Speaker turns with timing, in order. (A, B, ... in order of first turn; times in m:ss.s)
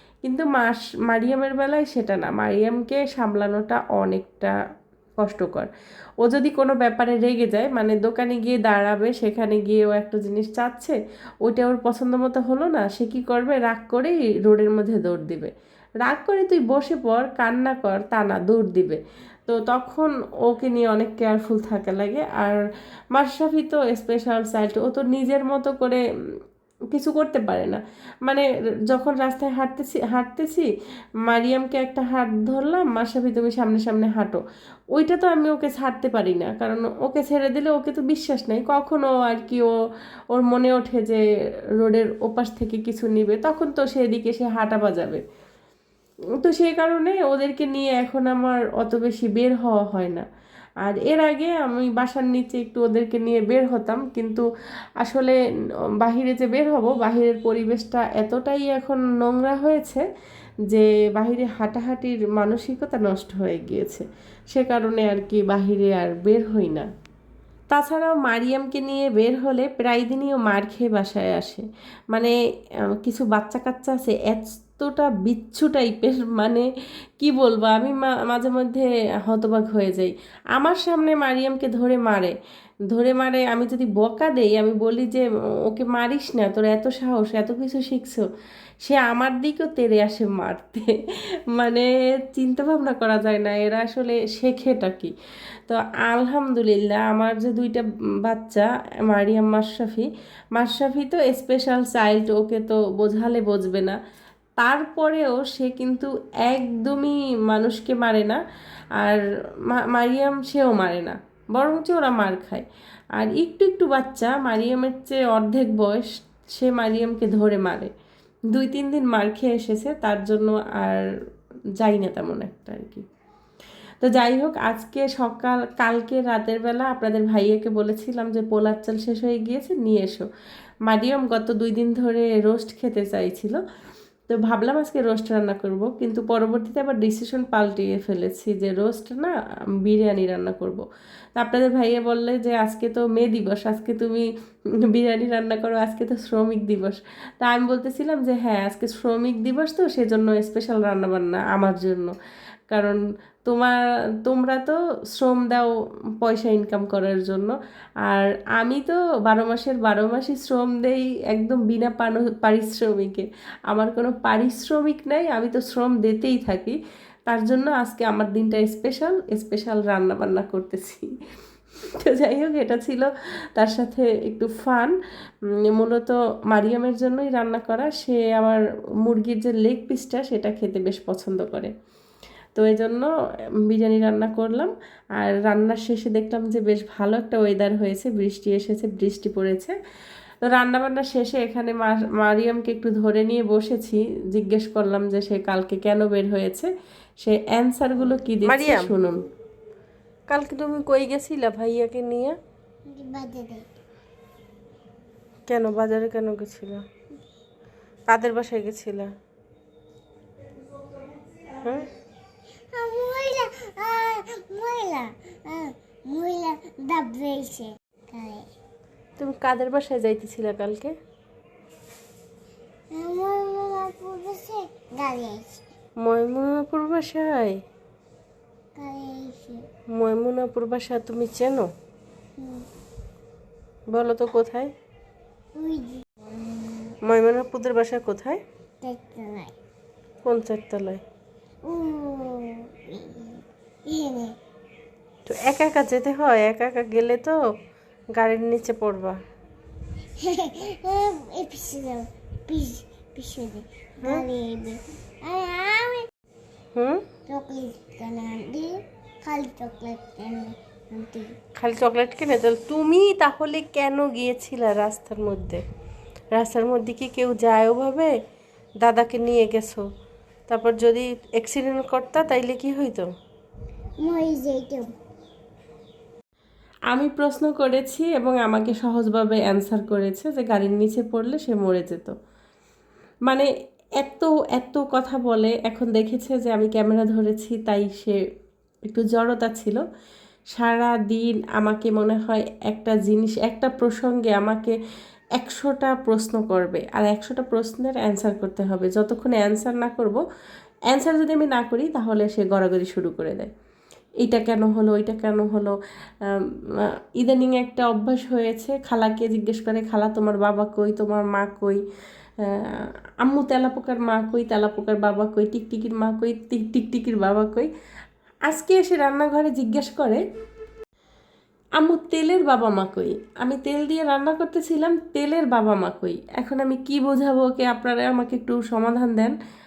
0:00.2-0:04.5 A
0:05.2-0:05.7 A
0:06.2-0:15.5 A
0:16.0-0:22.6 A
0:23.1-0:26.0 A
0:26.9-0:30.7 A
0:31.2-0:34.4 A
0:34.9-0:39.7 A
0:40.3-0:41.2 A
0:41.8-0:45.2 A
0:46.4-0:50.2 A
0:50.8-0:54.4 A
0:55.0-0:55.4 A
0:56.0-1:00.0 A
1:00.7-1:06.9 A
1:07.7-1:12.3 A
1:13.0-1:16.6 A
1:17.2-1:22.3 A
1:22.9-1:28.2 A
1:28.8-1:31.0 A
1:31.5-1:35.1 A
1:35.7-1:44.0 A
1:44.6-1:48.4 A
1:49.0-1:57.9 A
1:58.5-2:01.0 A
2:01.8-2:03.0 A
2:04.0-2:10.2 A
2:10.9-2:13.6 A
2:14.3-2:20.8 A
2:21.4-2:24.3 A
2:24.9-2:32.1 A
2:32.7-2:35.7 A
2:36.2-2:37.5 A
2:38.0-2:51.0 A
2:52.0-2:55.0 A
2:55.7-3:01.7 A
3:02.6-3:03.1 A
3:03.7-3:09.8 A
3:10.4-3:16.7 A
3:17.2-3:19.3 A
3:18.4-3:18.9 B
3:20.3-3:22.4 B
3:22.9-3:23.6 C
3:25.5-3:26.8 B
3:28.1-3:29.1 B
3:31.5-3:31.9 B
3:32.7-3:38.5 C
3:39.2-3:40.6 A
3:40.5-3:40.9 B
3:42.9-3:45.6 C
3:46.0-3:47.5 B
3:48.8-3:49.6 C
3:49.9-3:51.7 B
3:52.4-3:52.7 C
3:53.9-3:54.7 B
3:55.5-3:57.0 C
3:57.0-3:58.4 B
3:58.8-3:59.5 C
4:00.2-4:01.0 B
4:01.6-4:04.4 C
4:05.3-4:07.4 B
4:08.1-4:09.2 B
4:10.2-4:16.1 C
4:14.0-4:14.3 B
4:16.7-4:17.0 B
4:17.3-4:21.3 C
4:21.6-4:25.6 B
4:26.3-4:28.1 B
4:28.8-4:29.8 B
4:30.5-4:33.1 B
4:34.0-4:34.9 C
4:36.9-4:42.1 A
4:44.0-4:48.2 A
4:48.9-4:49.8 A
4:50.5-4:54.8 A
4:55.4-5:00.2 A
5:00.9-5:03.5 A
5:04.2-5:05.8 A
5:07.2-5:11.8 A
5:13.2-5:17.7 A
5:18.5-5:20.2 A
5:21.8-5:29.4 A